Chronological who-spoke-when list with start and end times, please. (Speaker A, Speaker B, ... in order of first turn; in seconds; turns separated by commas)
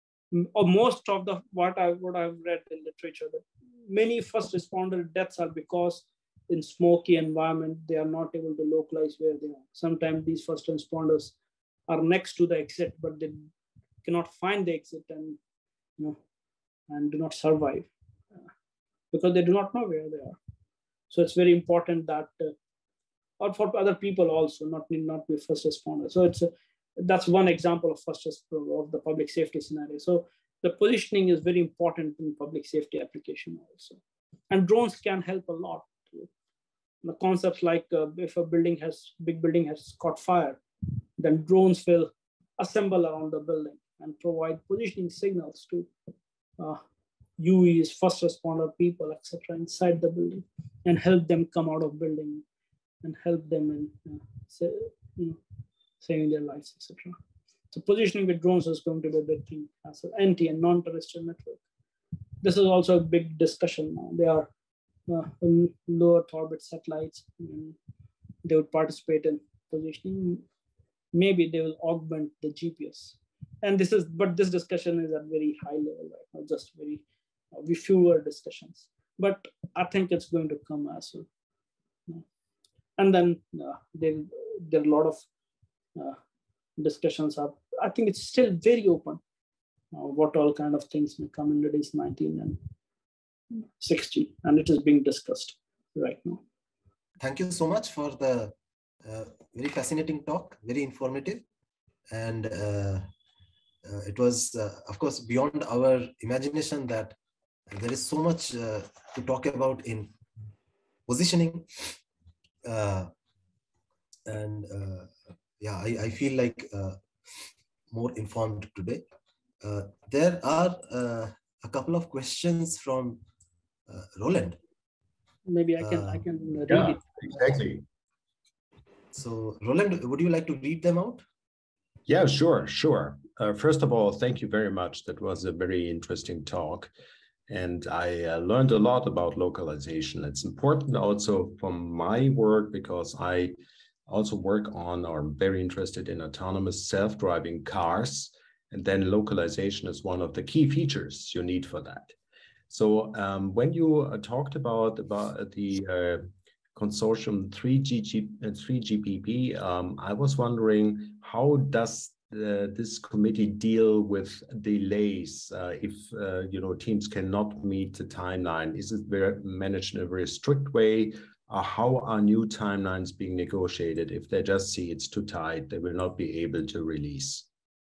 Speaker A: 0.3-11.3, Speaker A: 11.9-13.5, Speaker A: 14.0-15.4, Speaker A: 16.9-17.9, Speaker A: 19.1-20.4, Speaker A: 21.1-22.5, Speaker A: 23.4-36.3, Speaker A: 37.0-40.6, Speaker A: 41.2-45.9, Speaker A: 47.4-52.4, Speaker A: 53.0-55.4, Speaker A: 56.0-57.2, Speaker A: 57.7-61.6, Speaker A: 62.4-64.5, Speaker A: 65.1-67.8, Speaker A: 68.4-70.4, Speaker A: 71.1-81.3, Speaker A: 83.0-85.2, Speaker A: 86.8-89.2, Speaker A: 89.9-92.6, Speaker A: 93.5-96.4, Speaker B: 97.2-101.4, Speaker B: 102.1-103.0, Speaker B: 103.8-107.2, Speaker B: 107.7-110.1, Speaker B: 111.1-112.0, Speaker B: 112.6-113.1, Speaker B: 114.3-117.0, Speaker B: 117.9-119.0, Speaker B: 119.6-123.2, Speaker B: 123.9-124.6, Speaker A: 125.5-127.6, Speaker B: 125.8-126.2, Speaker C: 126.7-127.8, Speaker B: 129.1-131.2, Speaker C: 132.1-136.9, Speaker C: 137.5-143.6, Speaker C: 144.1-152.1, Speaker C: 152.7-177.5